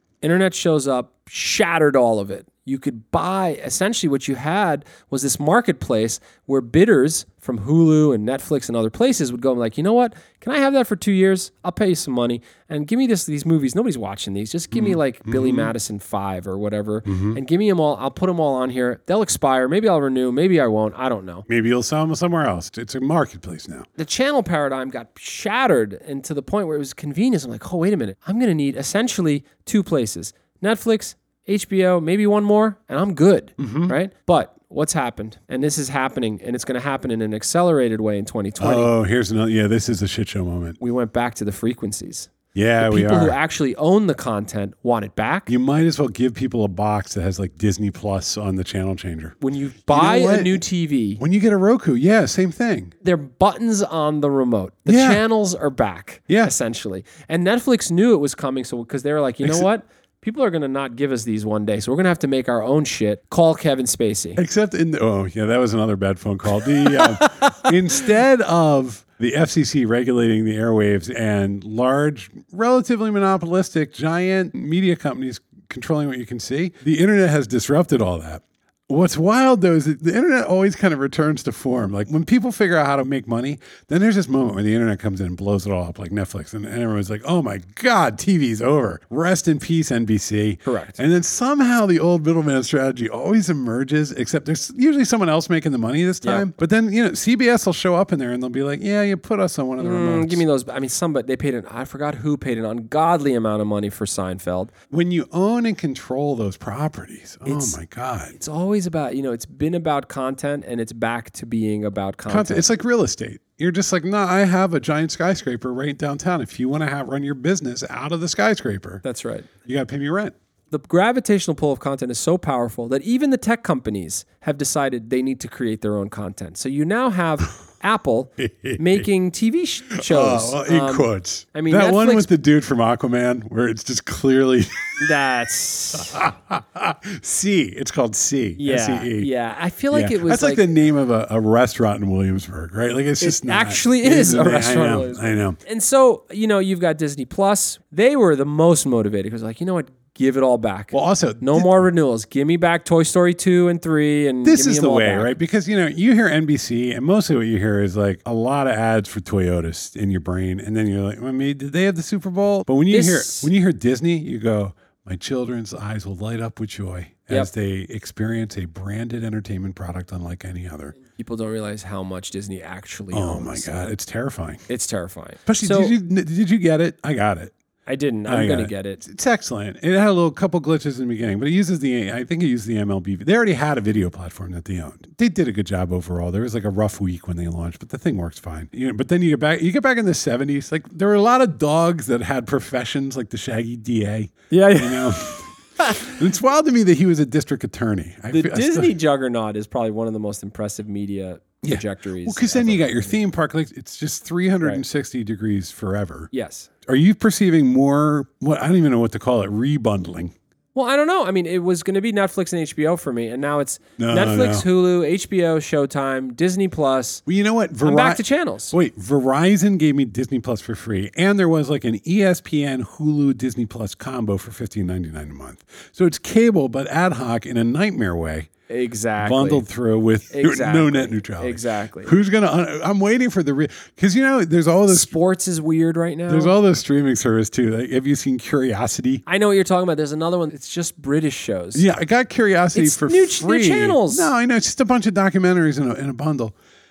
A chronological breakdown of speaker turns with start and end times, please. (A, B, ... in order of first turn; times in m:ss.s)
0:00.2-0:21.4 A
0:14.7-0:15.7 B
0:17.0-0:17.4 B
0:21.5-0:23.9 B
0:24.0-0:38.9 A
0:33.6-0:33.9 B
0:38.6-0:40.8 B
0:40.8-0:45.5 A
0:42.5-0:43.4 B
0:45.5-0:49.4 B
0:49.4-0:51.2 A
0:49.9-0:50.6 B
0:51.2-0:52.9 B
0:53.0-1:04.4 A
0:54.9-0:55.2 B
0:56.3-0:56.5 B
1:04.4-1:40.4 B
1:07.0-1:07.6 A
1:30.6-1:31.0 A
1:39.8-1:44.7 A
1:44.9-1:48.4 B
1:47.4-1:47.8 A
1:48.3-1:52.7 A
1:52.3-1:59.0 B
1:59.0-1:59.5 A
1:59.6-2:00.3 B
2:00.7-2:12.3 A
2:08.4-2:09.0 B
2:09.9-2:15.0 B
2:15.0-2:16.3 A
2:16.0-2:19.3 B
2:18.6-2:20.6 A
2:19.9-2:25.6 B
2:23.2-2:35.3 A
2:30.9-2:31.8 B
2:34.4-2:50.9 B
2:42.9-2:43.5 A
2:51.0-2:53.9 A
2:53.1-2:54.6 B
2:54.7-2:56.0 A
2:55.5-2:57.5 B
2:57.8-2:59.0 A
2:58.2-3:18.9 B
3:14.5-3:16.2 A
3:18.3-3:23.2 A
3:21.6-3:26.3 B
3:26.3-3:26.7 A
3:26.8-3:30.3 B
3:30.7-3:37.2 A
3:34.0-3:34.6 B
3:37.3-3:48.5 B
3:37.8-3:38.7 A
3:48.7-3:49.6 A
3:49.2-3:55.1 B
3:50.3-3:52.2 A
3:54.9-3:56.5 A
3:56.3-3:59.2 B
3:59.2-4:01.8 A
4:01.7-4:06.5 B
4:02.7-4:04.3 A